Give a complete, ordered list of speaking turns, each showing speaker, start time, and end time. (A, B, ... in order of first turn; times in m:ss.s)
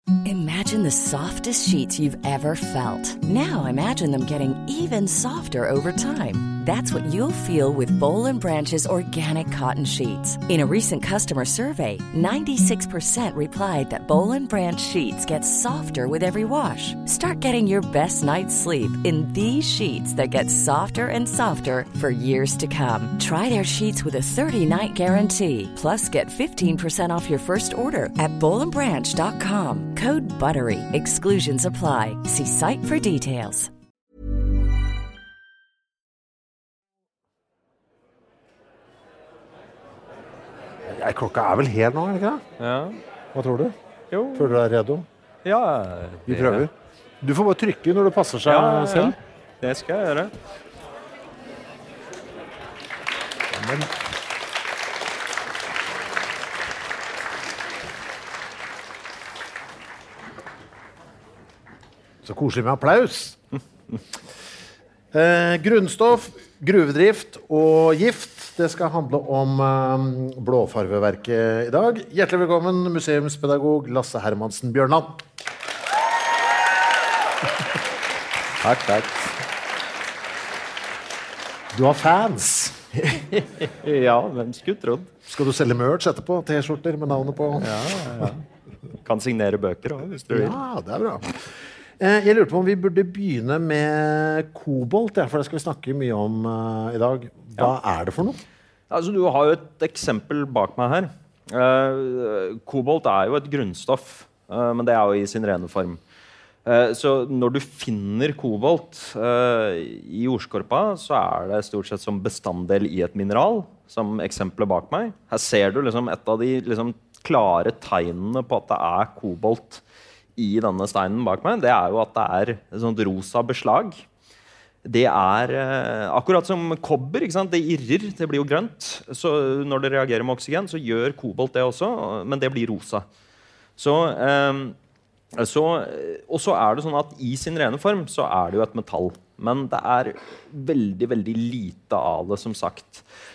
0:00.2-0:33.7 A
0:40.9-0:42.4 B
0:42.6-0:43.0 C
0:43.3-0:43.8 B
0:44.1-0:44.6 C
0:44.4-0:45.1 B
0:45.4-0:46.7 C
0:46.3-0:49.2 B
0:48.5-0:50.3 C
0:53.5-0:53.9 C
1:02.2-1:03.4 B
1:05.1-1:15.2 B
1:18.6-1:19.4 C
1:21.7-1:22.8 B
1:23.0-1:25.1 C
1:25.3-1:28.4 B
1:27.6-1:28.4 C
1:29.0-1:30.6 C
1:30.3-1:38.4 B
1:38.9-1:46.0 C
1:46.6-1:59.8 C
2:00.4-2:04.0 C
2:04.8-2:13.1 C
2:13.8-2:14.8 C
2:15.4-2:23.1 C